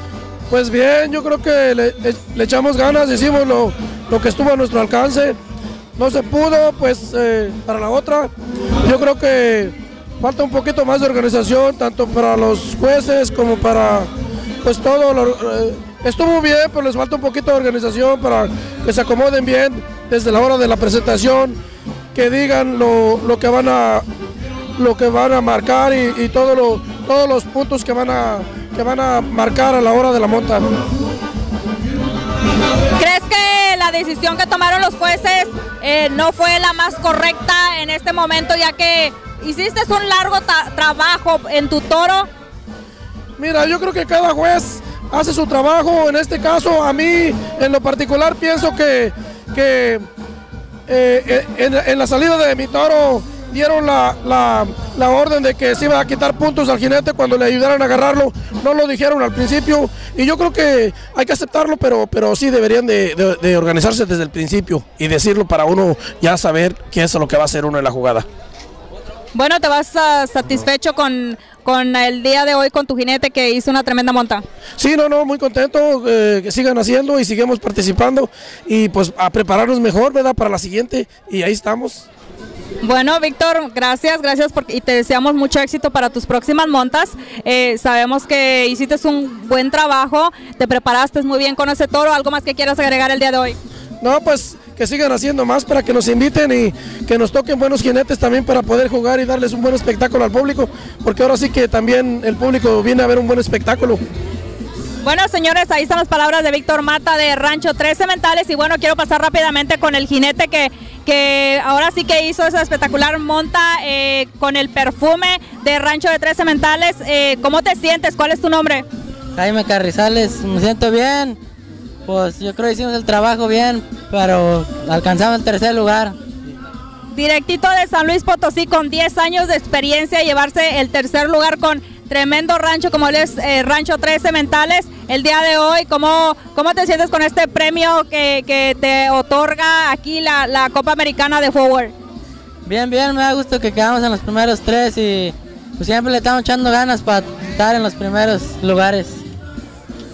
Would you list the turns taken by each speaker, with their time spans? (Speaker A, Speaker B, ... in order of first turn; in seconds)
Speaker A: 0.5-5.4, 6.0-8.3, 8.8-14.1, 14.6-21.6, 22.1-24.0, 24.8-30.7, 43.4-50.0, 50.9-68.2, 74.8-82.1, 94.0-104.0
Speaker B: 33.0-42.3, 69.3-74.4, 82.8-93.6, 105.0-118.8, 127.1-141.9
Speaker C: 119.3-121.4, 122.0-126.2, 142.7-149.2